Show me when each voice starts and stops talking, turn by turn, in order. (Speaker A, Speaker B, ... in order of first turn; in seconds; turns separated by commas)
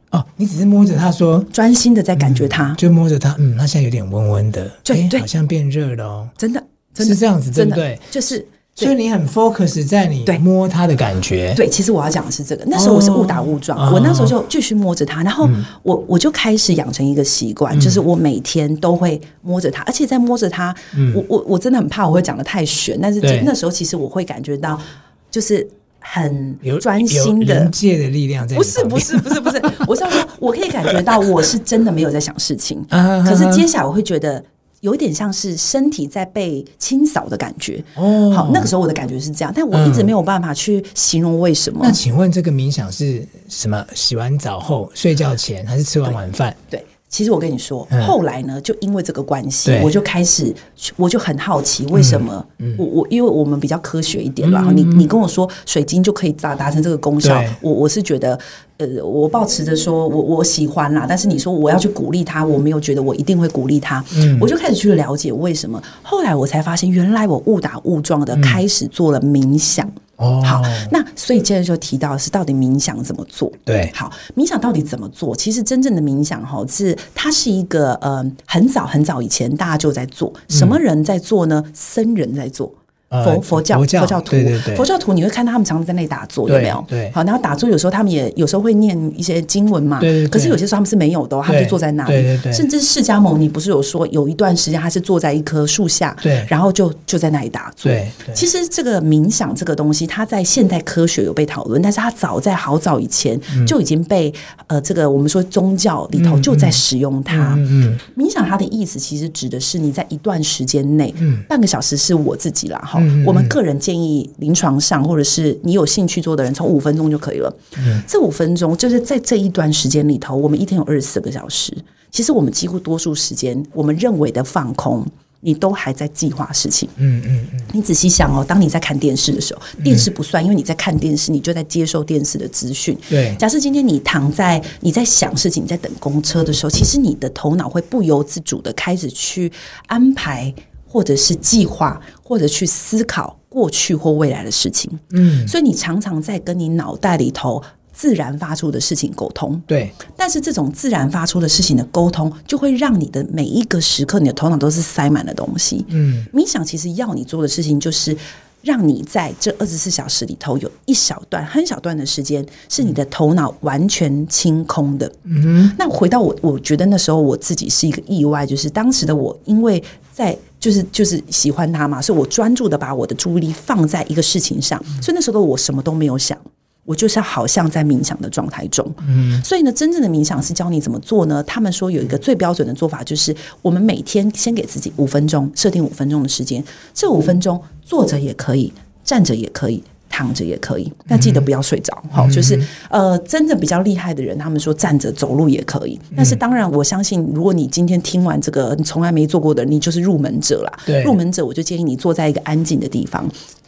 Speaker A: 0.1-1.5, Speaker B: 1.5-2.8, Speaker A: 2.2-6.3, Speaker B: 4.8-5.3, Speaker B: 6.4-8.9, Speaker A: 7.0-8.2, Speaker A: 8.8-11.6, Speaker B: 11.6-27.7, Speaker A: 12.7-14.3, Speaker A: 17.7-18.0, Speaker A: 20.9-21.2, Speaker A: 23.2-23.5, Speaker A: 26.6-29.9, Speaker B: 28.5-42.0, Speaker A: 32.9-33.7, Speaker A: 38.0-38.7, Speaker A: 39.7-40.1, Speaker A: 41.8-46.6, Speaker B: 46.7-126.9, Speaker A: 49.6-49.9, Speaker A: 51.9-52.8, Speaker A: 54.4-55.1, Speaker A: 57.2-57.6, Speaker A: 64.1-64.5, Speaker A: 68.3-68.6, Speaker A: 70.2-70.9, Speaker A: 73.7-73.9, Speaker A: 80.5-80.8, Speaker A: 83.1-84.9, Speaker A: 86.5-87.2, Speaker A: 90.0-90.6, Speaker A: 91.5-92.7, Speaker A: 96.2-96.5, Speaker A: 97.8-98.4, Speaker A: 106.2-108.0, Speaker A: 113.0-113.5, Speaker A: 117.8-118.0, Speaker A: 127.0-127.7, Speaker B: 127.7-203.3, Speaker A: 129.8-130.1, Speaker A: 133.1-133.4, Speaker A: 145.1-145.5, Speaker A: 149.7-150.0, Speaker A: 155.9-156.3, Speaker A: 165.3-165.7, Speaker A: 179.1-179.4, Speaker A: 191.1-191.5, Speaker A: 192.2-192.7, Speaker A: 200.9-201.2